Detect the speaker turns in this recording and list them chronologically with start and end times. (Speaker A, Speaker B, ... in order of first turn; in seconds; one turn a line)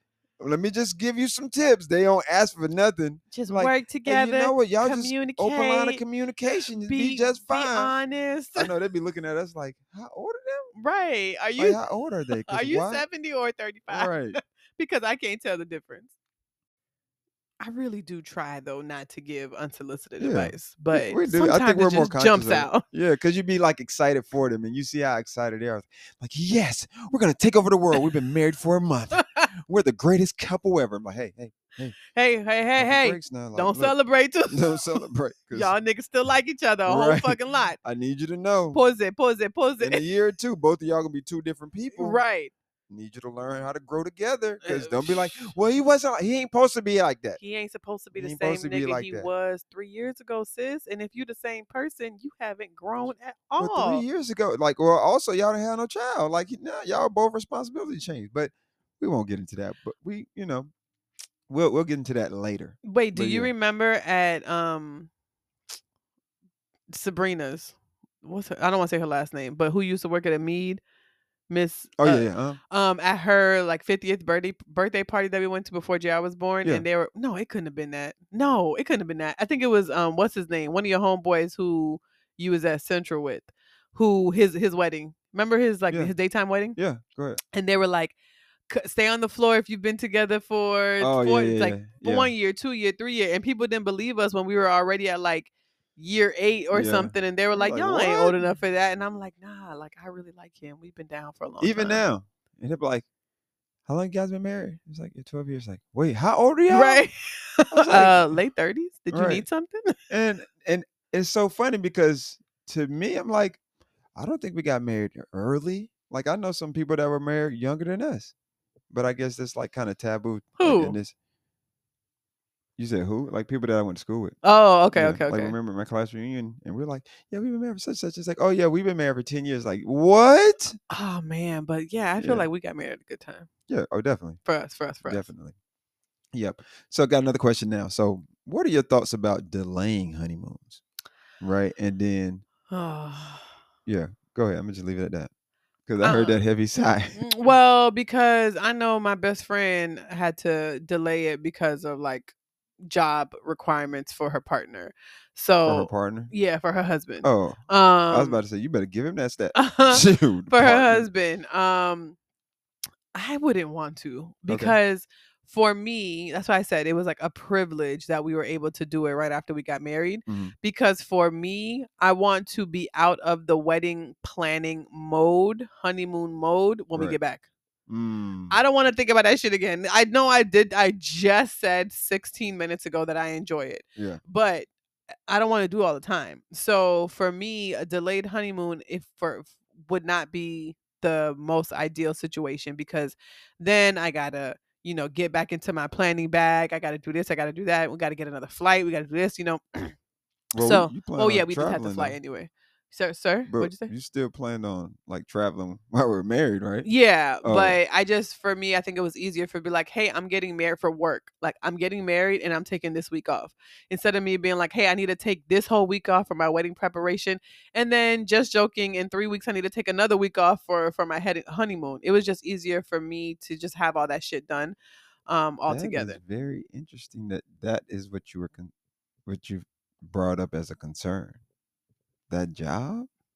Speaker A: 0.4-7.9
Speaker B: 3.3-6.0
Speaker B: 6.9-8.7
Speaker A: 8.6-10.7
Speaker B: 10.8-11.8
Speaker A: 11.6-13.0
Speaker B: 12.4-16.1
Speaker A: 13.9-14.4
Speaker B: 17.6-22.8
Speaker A: 20.2-32.0
Speaker B: 29.1-29.5
Speaker B: 32.1-37.8
Speaker A: 32.8-34.0
Speaker A: 34.5-35.7
Speaker A: 36.9-38.8
Speaker B: 38.7-40.0
Speaker A: 39.8-42.2
Speaker B: 41.9-42.5
Speaker A: 42.9-47.4
Speaker B: 44.6-45.5
Speaker B: 47.4-54.0
Speaker A: 48.1-49.3
Speaker A: 53.6-60.7
Speaker A: 61.5-63.5
Speaker B: 62.8-65.1
Speaker B: 66.9-70.8
Speaker B: 71.5-86.8
Speaker A: 72.0-72.6
Speaker A: 86.8-87.4
Speaker B: 87.5-88.2
Speaker B: 88.7-102.0
Speaker A: 91.0-92.3
Speaker A: 96.7-98.4
Speaker A: 101.6-103.1
Speaker A: 103.9-107.0
Speaker B: 106.7-109.9
Speaker A: 107.7-108.2
Speaker A: 109.1-109.5
Speaker A: 110.1-113.6
Speaker A: 114.2-118.3
Speaker A: 118.9-121.1
Speaker B: 120.6-121.0
Speaker A: 122.8-124.4
Speaker B: 124.4-125.5
Speaker A: 124.9-130.8
Speaker B: 130.9-133.5
Speaker A: 132.2-132.4
Speaker A: 133.7-134.4
Speaker B: 134.4-135.3
Speaker A: 135.0-135.6
Speaker A: 136.3-140.8
Speaker A: 141.4-142.4
Speaker B: 142.7-143.5
Speaker A: 143.9-145.3
Speaker A: 145.9-147.2
Speaker B: 146.0-146.4
Speaker B: 147.2-158.4
Speaker A: 155.6-156.3
Speaker A: 157.2-157.6
Speaker A: 158.1-161.1
Speaker B: 159.6-162.2
Speaker B: 163.1-177.4
Speaker A: 164.5-164.8
Speaker A: 170.3-170.5
Speaker A: 177.9-178.6
Speaker B: 178.5-184.7
Speaker A: 184.0-184.2
Speaker B: 185.3-199.9
Speaker A: 200.5-202.2
Speaker B: 200.6-203.9
Speaker A: 203.5-206.9
Speaker B: 206.8-224.8
Speaker A: 207.4-207.8
Speaker B: 225.3-226.2
Speaker A: 225.7-228.7
Speaker A: 229.3-231.4
Speaker A: 232.3-233.1